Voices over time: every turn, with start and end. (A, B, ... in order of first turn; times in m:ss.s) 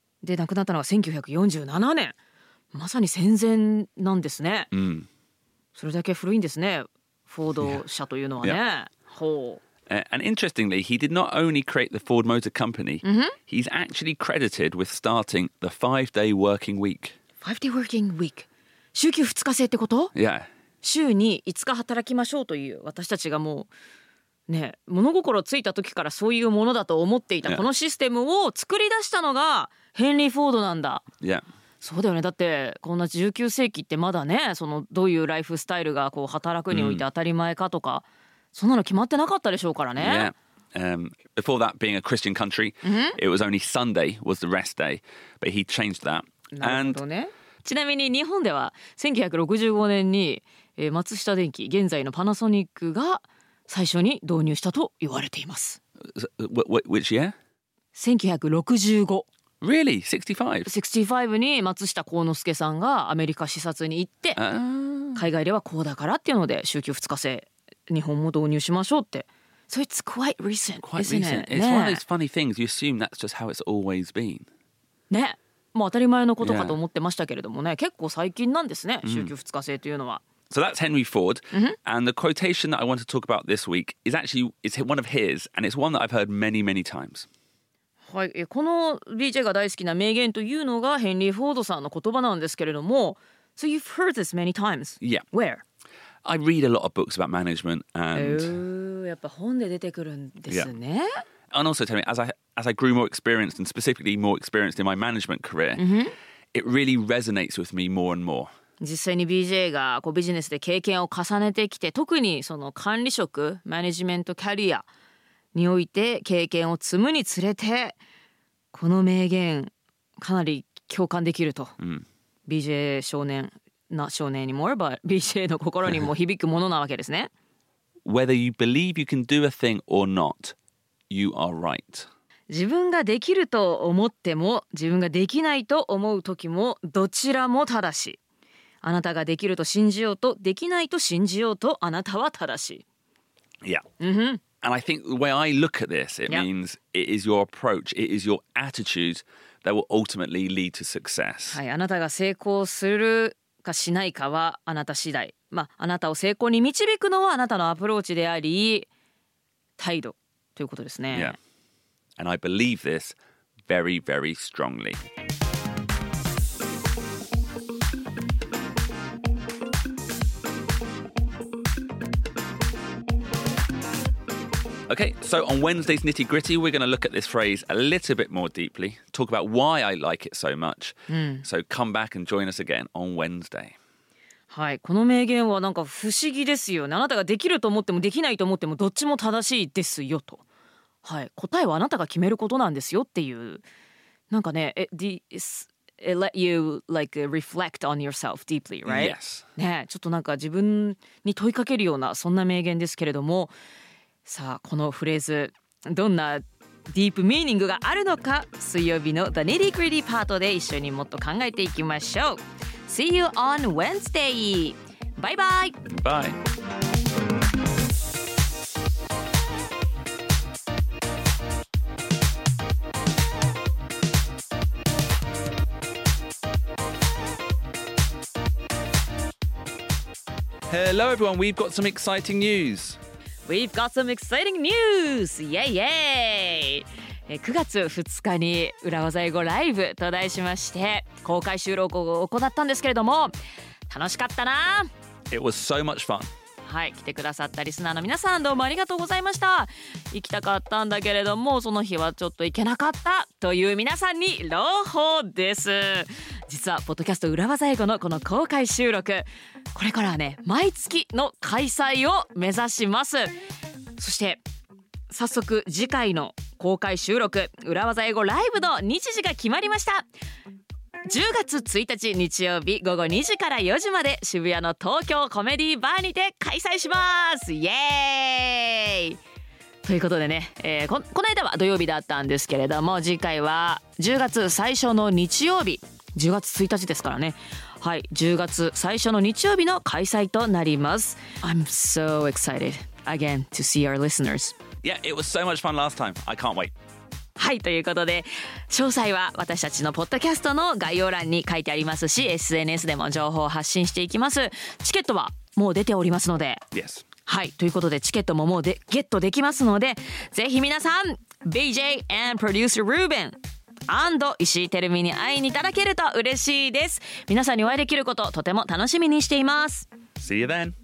0:00.2-0:02.1 A
0:02.7-0:04.7 A
0:04.7-0:05.1 B
0:05.7-0:09.6 A
0:09.9-0:17.2 B
0:13.0-0:13.4 A
0:17.4-0:20.1 A
0:20.1-0:20.5 B
0:20.8-0:23.7 A
0:24.5-0:31.0 A
0:31.8-0:40.3 A
0:36.7-0:37.0 B
0:40.0-0:47.0 B
0:42.8-0:43.2 A
0:46.5-0:55.8 A
0:56.1-0:57.3 B
0:57.9-0:59.2 A
0:59.6-1:00.7 B
1:00.6-1:04.4 A
1:04.4-1:05.2 B
1:05.1-1:12.0 A
1:10.8-1:14.5 B
1:15.1-1:20.2 A
1:16.4-1:16.8 B
1:19.0-1:19.3 B
1:20.5-1:27.3 B
1:21.5-1:21.8 A
1:28.1-1:35.6 A
1:36.2-1:38.6 B
1:38.1-1:41.2 A
1:41.5-1:45.8 B
1:45.8-1:46.1 A
1:46.5-1:48.5 B
1:48.8-1:54.8 A
1:55.5-1:58.0 A
1:58.7-2:01.7 A
2:01.8-2:02.0 B
2:02.5-2:07.3 A
2:08.0-2:10.6 B
2:11.1-2:12.1 B
2:12.5-2:18.2 A
2:18.8-2:22.8 A
2:24.0-2:24.4 A
2:24.6-2:31.6 B
2:31.5-2:38.9 A
2:39.8-2:41.4 A
2:41.1-2:41.4 B
2:42.2-2:43.2 B
2:43.7-2:45.0 B
2:54.9-3:03.8 B
3:01.1-3:01.4 A
3:04.5-3:10.4 A
3:11.0-3:13.6 A
3:14.3-3:23.5 A
3:18.8-3:19.4 B
3:24.2-3:35.9 A
3:35.9-3:36.4 B
3:50.7-3:53.0 B
3:53.4-4:03.3 A
4:03.9-4:04.9 A
4:05.3-4:06.3 B
4:06.6-4:23.4 A
4:24.0-4:24.4 A
4:25.1-4:30.1 A
4:31.0-4:39.2 A
4:39.8-4:54.5 A
4:54.8-4:56.7 B
4:57.4-5:06.6 A
5:06.7-5:07.0 B
5:07.2-5:19.9 A
5:20.2-5:20.7 B